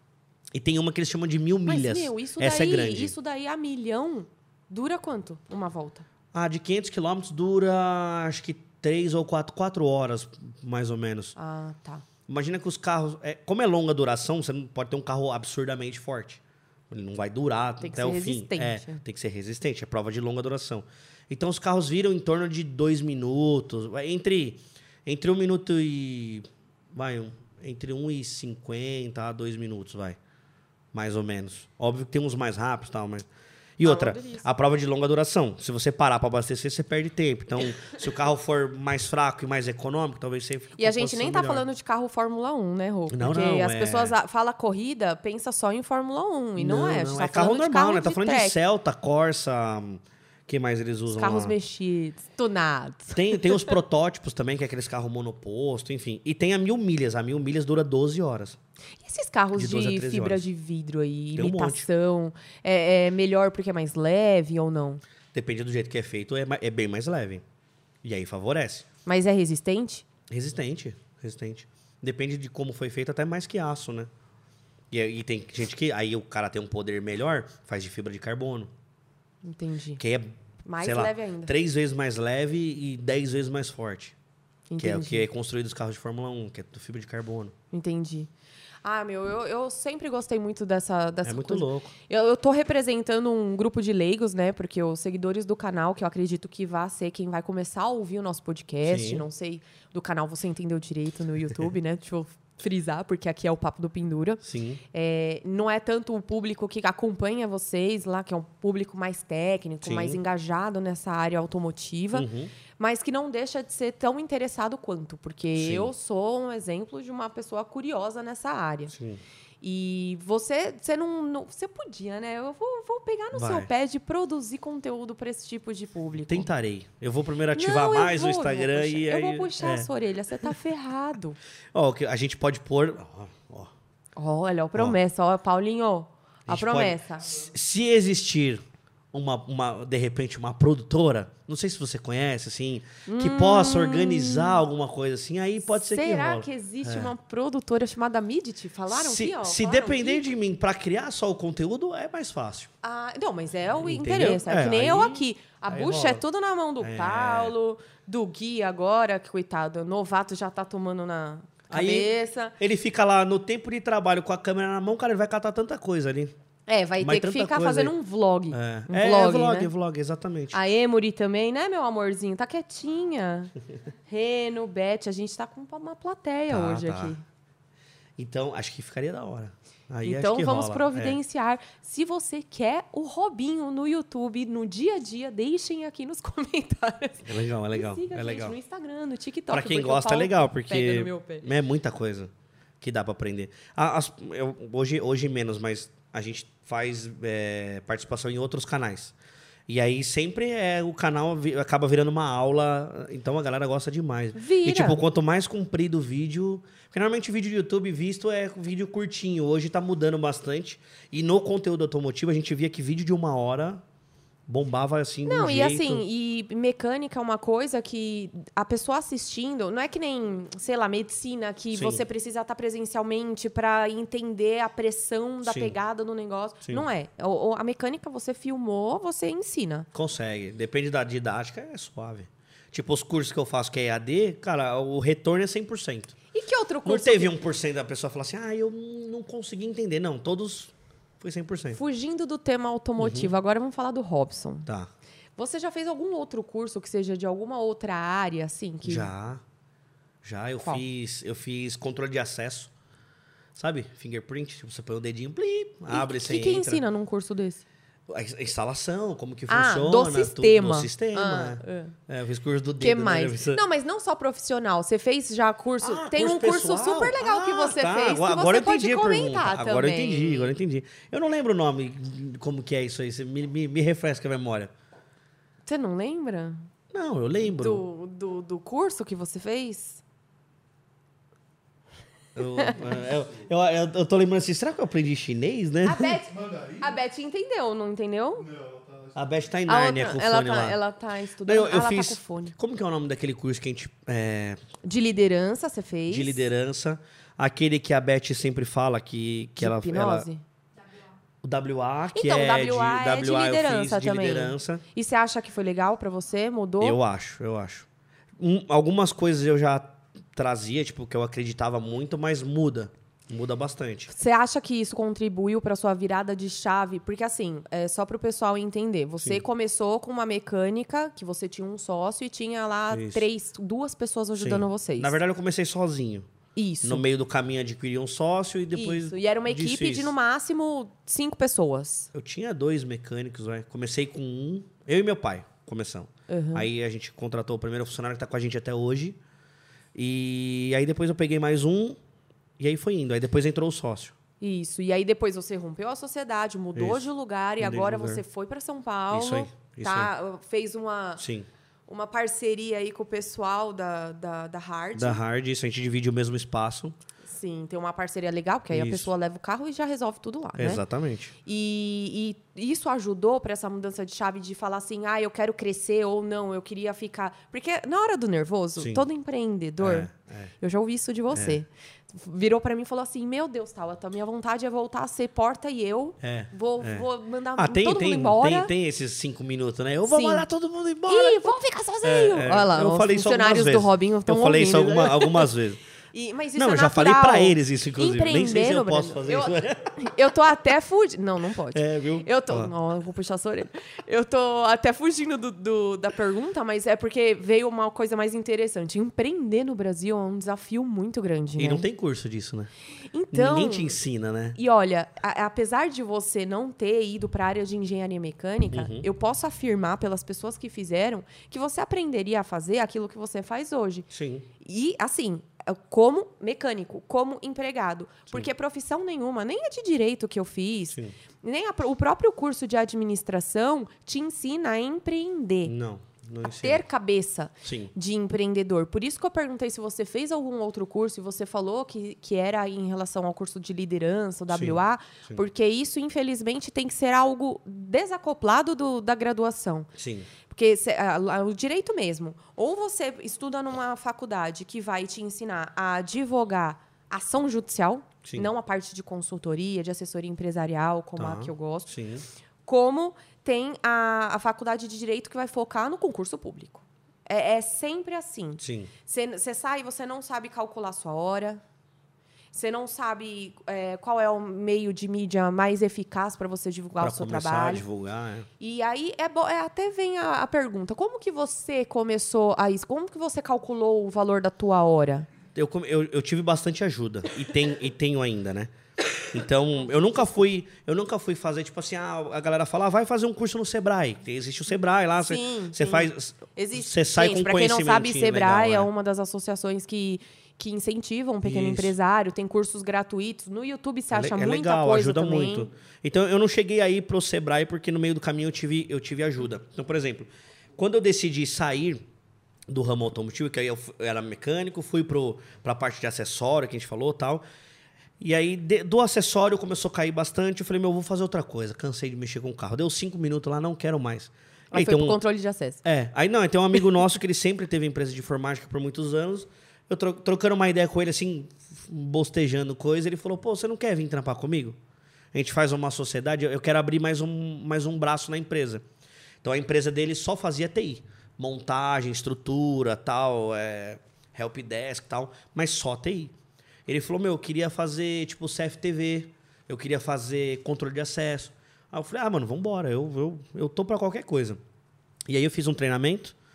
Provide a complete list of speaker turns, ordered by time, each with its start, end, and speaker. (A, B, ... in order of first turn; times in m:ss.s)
0:00.5-0:03.1 A
0:01.6-0:06.0 B
0:06.3-0:11.4 A
0:11.4-0:12.0 B
0:12.3-0:30.2 A
0:17.8-0:19.0 B
0:30.9-0:33.3 A
0:33.8-0:41.7 A
0:33.8-0:34.5 B
0:40.8-0:48.6 B
0:43.1-0:44.2 A
0:46.6-0:51.6 A
0:51.1-0:53.7 B
0:53.1-0:58.6 A
0:59.0-1:05.0 B
0:59.5-1:00.5 A
1:01.4-1:01.9 A
1:05.3-1:07.4 A
1:08.0-1:08.9 A
1:09.1-1:10.0 B
1:10.3-1:14.1 A
1:14.9-1:18.7 A
1:19.4-1:20.0 B
1:20.0-1:24.2 A
1:20.6-1:21.5 B
1:24.7-1:25.3 B
1:24.8-1:27.5 A
1:27.7-1:28.3 B
1:28.8-1:58.9 B
1:31.2-1:31.9 A
1:38.8-1:39.3 A
1:44.4-1:44.8 A
1:49.8-1:50.2 A
1:52.1-1:52.5 A
1:55.6-1:55.9 A
1:58.9-1:59.2 A
1:59.6-2:06.5 B
2:03.3-2:03.7 A
2:06.2-2:09.9 A
2:07.5-2:11.4 B
2:11.7-2:13.7 A
2:14.2-2:17.4 B
2:16.5-2:27.1 A
2:23.1-2:24.6 B
2:25.7-2:30.3 B
2:28.9-2:32.7 A
2:32.8-2:42.6 B
2:33.8-2:36.2 A
2:36.8-2:37.5 A
2:41.7-2:46.3 A
2:46.7-2:49.7 B
2:47.0-2:47.9 A
2:48.5-2:50.6 A
2:50.5-2:53.5 B
2:54.1-2:57.2 B
2:56.5-2:57.1 A
2:58.2-3:01.2 A
3:00.0-3:11.5 B
3:07.2-3:08.6 A
3:09.5-3:19.1 A
3:19.7-3:33.8 A
3:24.4-3:25.0 B
3:34.5-3:36.0 A
3:35.3-3:49.9 B
3:41.7-3:42.0 A
3:45.4-3:45.8 A
3:49.9-3:56.2 A
3:56.3-3:57.4 B
3:56.8-4:01.8 A
4:01.7-4:04.7 B
4:03.0-4:03.3 A
4:04.7-4:04.9 A
4:05.4-4:09.1 B
4:08.8-4:09.4 A
4:10.2-4:12.7 A
4:13.6-4:16.8 A
4:15.9-4:17.6 B
4:18.1-4:23.6 A
4:19.5-4:22.0 B
4:22.8-4:30.5 B
4:25.8-4:34.7 A
4:35.7-4:36.7 B
4:36.9-4:37.8 A
4:37.5-4:40.0 B
4:42.4-4:46.2 A
4:42.7-4:43.5 C
4:45.8-4:48.4 B
4:46.3-4:47.0 C
4:48.4-4:49.4 C
4:49.2-4:50.8 A
4:49.7-4:52.6 B
4:51.4-4:54.6 A
4:54.8-4:56.5 B
4:56.1-5:00.3 A
4:59.6-5:00.4 B
5:01.4-5:04.8 A
5:02.1-5:07.0 B
5:06.8-5:07.9 A
5:08.4-5:14.1 A
5:14.1-5:25.2 B
5:22.9-5:23.3 A
5:24.4-5:26.3 A
5:26.6-5:27.1 B
5:26.8-5:30.1 A
5:28.7-5:32.1 B
5:32.1-5:39.2 A
5:36.3-5:36.7 B
5:40.0-5:42.0 A
5:42.6-5:44.2 A
5:44.4-5:51.2 B
5:46.8-5:47.1 A
5:47.6-5:48.2 A
5:49.1-5:50.1 A
5:51.2-5:51.5 A
5:51.9-5:55.2 B
5:55.0-5:57.0 A
5:57.3-6:00.8 B
5:58.7-5:59.1 A
6:00.6-6:01.3 A
6:01.4-6:18.7 B
6:08.8-6:09.1 A
6:09.8-6:10.5 A
6:11.3-6:11.6 A
6:16.2-6:25.8 A
6:20.1-6:20.5 B
6:21.1-6:25.5 B
6:26.1-6:41.9 B
6:26.6-6:29.9 A
6:31.7-6:32.7 A
6:41.6-6:42.7 A
6:43.1-6:44.0 B
6:43.3-6:44.6 A
6:44.6-6:54.1 B
6:48.7-6:49.1 A
6:54.1-6:54.5 A
6:54.6-7:05.7 B
7:05.6-7:06.8 A
7:06.4-7:19.9 B
7:07.6-7:07.9 A
7:14.5-7:15.4 A
7:20.0-7:20.3 A
7:20.5-7:32.0 B
7:28.2-7:28.5 A
7:31.2-7:32.3 A
7:32.6-7:41.6 B
7:38.6-7:38.9 A
7:42.5-7:47.8 B
7:47.0-7:48.5 A
7:48.6-7:55.3 B
7:55.6-7:58.7 A
7:59.3-8:08.9 A
8:05.2-8:15.7 B
8:11.4-8:12.0 A
8:14.1-8:22.0 A
8:22.7-8:27.4 A
8:28.2-8:35.2 A
8:34.7-8:35.8 B
8:35.8-8:44.8 A
8:45.3-8:48.8 A
8:49.4-8:56.3 A
8:56.9-9:04.6 A
9:05.3-9:06.4 A